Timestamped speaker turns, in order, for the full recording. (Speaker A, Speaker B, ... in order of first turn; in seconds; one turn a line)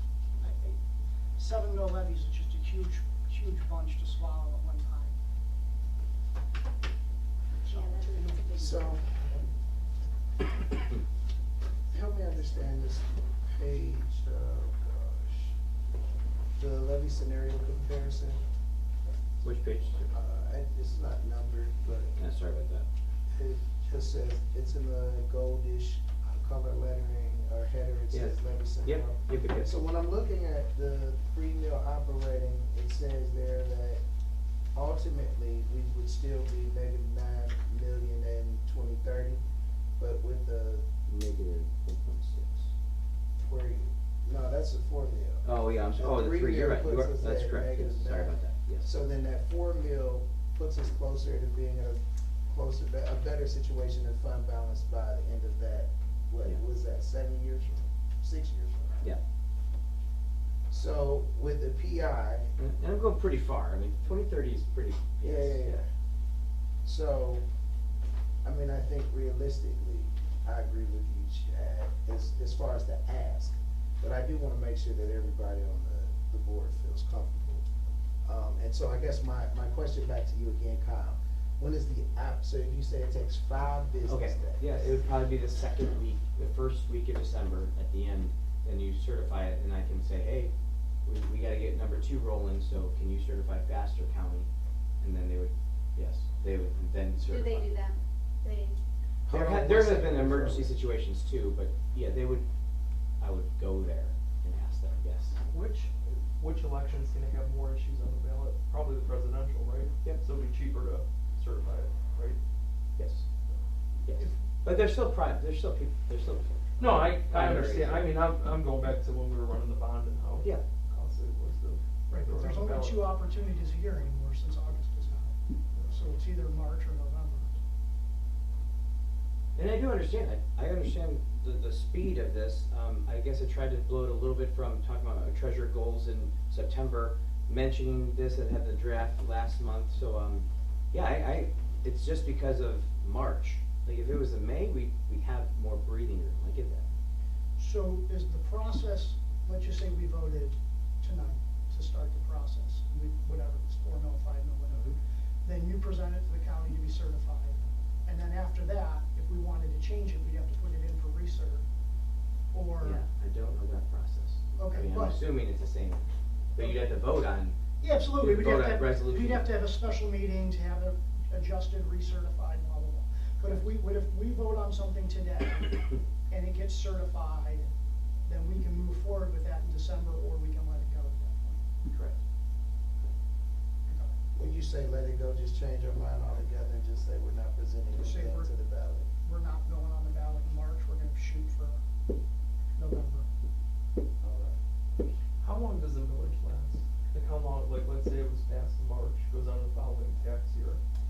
Speaker A: 0.4-0.8
Speaker A: 1.4-5.2
Speaker A: 7.6-9.4
Speaker B: 7.7-8.6
Speaker C: 8.6-9.0
Speaker C: 11.9-15.6
Speaker C: 16.6-18.4
Speaker D: 19.4-20.1
Speaker C: 20.1-22.2
Speaker D: 22.2-22.9
Speaker C: 23.3-34.0
Speaker D: 28.1-29.8
Speaker C: 34.7-39.4
Speaker C: 40.0-40.9
Speaker D: 41.1-42.7
Speaker C: 43.4-59.1
Speaker D: 45.5-48.9
Speaker C: 60.7-62.5
Speaker D: 62.6-65.8
Speaker C: 65.2-65.9
Speaker C: 66.8-67.4
Speaker C: 68.4-77.6
Speaker C: 78.2-84.9
Speaker D: 84.1-90.5
Speaker D: 91.0-94.5
Speaker D: 95.0-97.7
Speaker B: 97.2-98.8
Speaker C: 99.3-100.8
Speaker D: 99.3-102.4
Speaker D: 103.2-105.4
Speaker E: 105.5-112.4
Speaker D: 113.0-113.2
Speaker D: 114.0-118.1
Speaker E: 116.8-123.1
Speaker A: 122.1-127.5
Speaker D: 129.6-146.8
Speaker A: 147.6-161.7
Speaker A: 162.5-163.0
Speaker D: 162.8-167.6
Speaker A: 164.6-165.2
Speaker A: 167.8-177.7
Speaker D: 168.2-169.5
Speaker A: 178.2-181.7
Speaker D: 181.9-182.2
Speaker A: 183.9-184.1
Speaker C: 184.3-189.1
Speaker A: 188.0-188.5
Speaker A: 189.2-191.8
Speaker A: 192.8-193.3
Speaker C: 194.2-194.6
Speaker E: 195.4-200.8